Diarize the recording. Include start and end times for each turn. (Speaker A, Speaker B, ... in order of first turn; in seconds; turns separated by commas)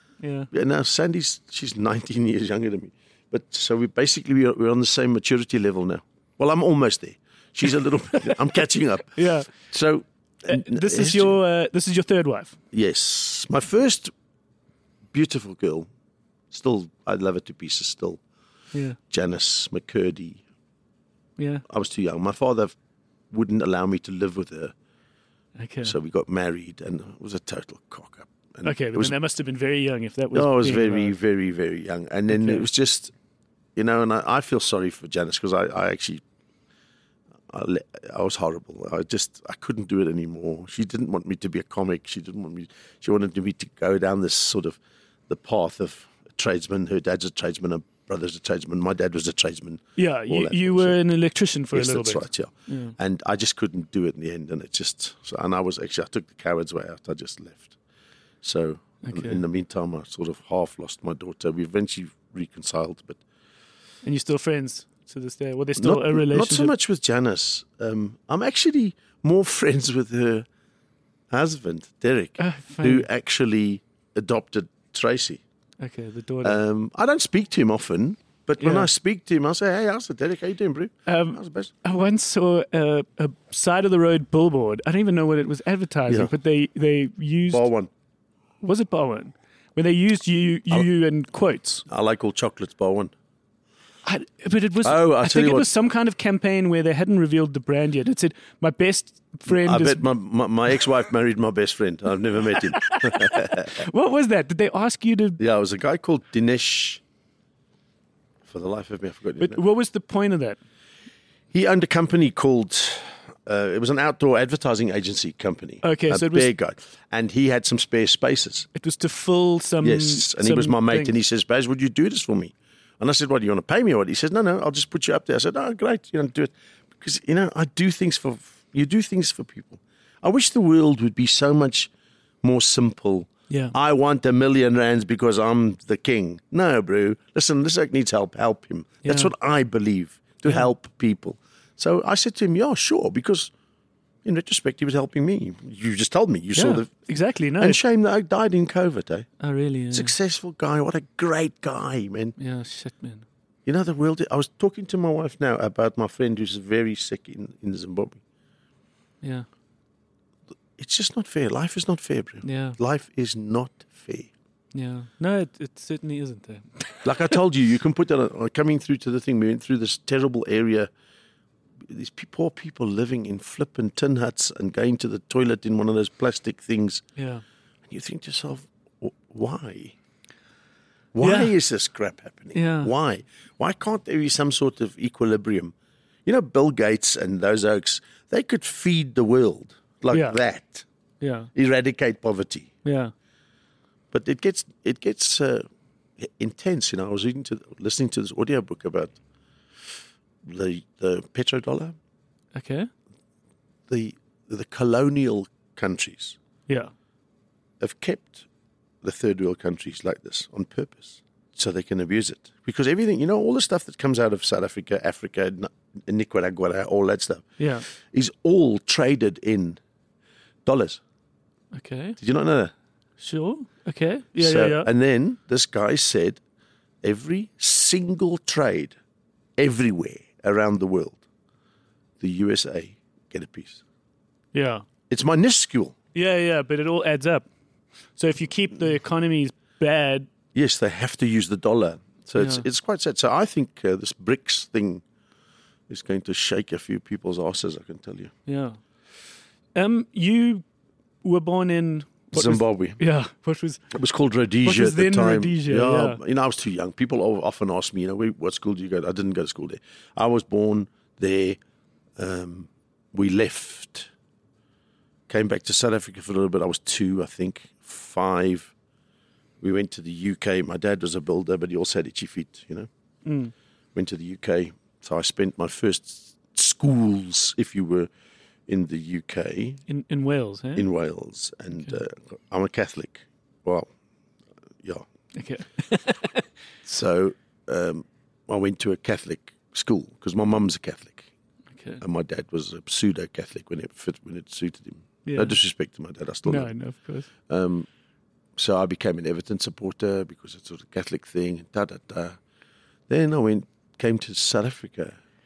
Speaker A: 0.2-0.5, Speaker B: 0.5-11.3, Speaker A: 9.1-9.5, Speaker A: 10.4-12.6, Speaker B: 12.7-14.1, Speaker B: 15.1-15.9, Speaker B: 16.5-18.2, Speaker A: 18.7-19.0, Speaker B: 19.1-20.4, Speaker A: 21.4-21.6, Speaker B: 21.7-22.7, Speaker B: 23.3-24.7, Speaker A: 25.6-25.9, Speaker B: 25.8-29.1, Speaker A: 28.6-31.1, Speaker B: 30.3-33.1, Speaker A: 32.3-32.6, Speaker B: 33.8-36.2, Speaker B: 37.5-51.0, Speaker A: 50.0-52.9, Speaker B: 51.7-57.7, Speaker B: 58.4-63.2, Speaker A: 59.0-59.4, Speaker A: 64.0-66.7, Speaker B: 65.8-70.5, Speaker B: 71.3-75.4, Speaker A: 72.4-73.1, Speaker A: 75.8-76.6, Speaker B: 76.4-81.7, Speaker A: 78.6-78.9, Speaker A: 81.1-87.7, Speaker B: 87.5-87.9, Speaker A: 88.6-91.8, Speaker B: 91.9-93.1, Speaker A: 94.0-100.0, Speaker B: 94.8-95.7, Speaker B: 99.5-103.8, Speaker A: 102.7-105.4, Speaker B: 105.4-107.0, Speaker B: 108.5-109.6, Speaker A: 109.4-110.6, Speaker B: 111.5-118.7, Speaker A: 115.8-116.5, Speaker A: 118.7-121.1, Speaker B: 119.8-131.9, Speaker B: 132.4-143.5, Speaker A: 139.0-139.3, Speaker B: 144.2-146.9, Speaker A: 146.5-147.8, Speaker B: 147.6-149.3, Speaker A: 149.4-150.1, Speaker B: 149.9-152.3, Speaker A: 152.4-153.2, Speaker B: 153.7-158.2, Speaker A: 159.2-159.5, Speaker B: 160.8-164.3, Speaker A: 162.4-162.8, Speaker A: 164.7-167.3, Speaker B: 167.0-170.9, Speaker B: 171.8-177.0, Speaker A: 177.2-177.4, Speaker B: 177.9-179.9, Speaker B: 181.1-185.7, Speaker A: 181.2-181.5, Speaker A: 182.5-182.9, Speaker B: 186.2-190.8, Speaker A: 190.1-190.4, Speaker A: 191.2-191.5, Speaker B: 191.5-192.7, Speaker A: 192.8-193.1, Speaker B: 194.1-195.7, Speaker B: 196.2-199.2, Speaker B: 200.4-201.9, Speaker A: 202.5-202.9, Speaker B: 203.9-206.3, Speaker B: 207.8-208.4, Speaker B: 209.0-219.8, Speaker A: 217.6-217.8, Speaker B: 220.6-221.0, Speaker A: 221.7-222.2, Speaker B: 222.2-222.7, Speaker A: 223.2-224.9, Speaker B: 224.4-226.4, Speaker B: 227.0-228.9, Speaker B: 229.6-231.2, Speaker B: 232.2-233.8, Speaker A: 234.5-234.8, Speaker B: 235.1-235.9, Speaker A: 236.1-237.4, Speaker A: 238.2-240.3, Speaker B: 240.5-245.0, Speaker A: 242.4-242.6, Speaker B: 245.9-248.3, Speaker A: 248.4-248.8, Speaker A: 249.7-250.6, Speaker A: 251.2-253.8, Speaker B: 252.3-253.0, Speaker B: 253.9-261.6, Speaker A: 254.6-256.2, Speaker B: 262.2-264.1, Speaker B: 265.3-268.7, Speaker B: 269.6-272.9, Speaker A: 273.2-273.5, Speaker B: 273.9-278.1, Speaker B: 278.7-279.8, Speaker A: 279.9-280.9, Speaker B: 280.8-283.9, Speaker A: 285.3-286.4, Speaker B: 286.9-291.3, Speaker A: 291.7-292.0, Speaker B: 292.0-296.7, Speaker A: 295.2-295.5, Speaker A: 296.4-297.3, Speaker B: 297.5-297.9, Speaker B: 298.6-302.4, Speaker B: 303.1-305.1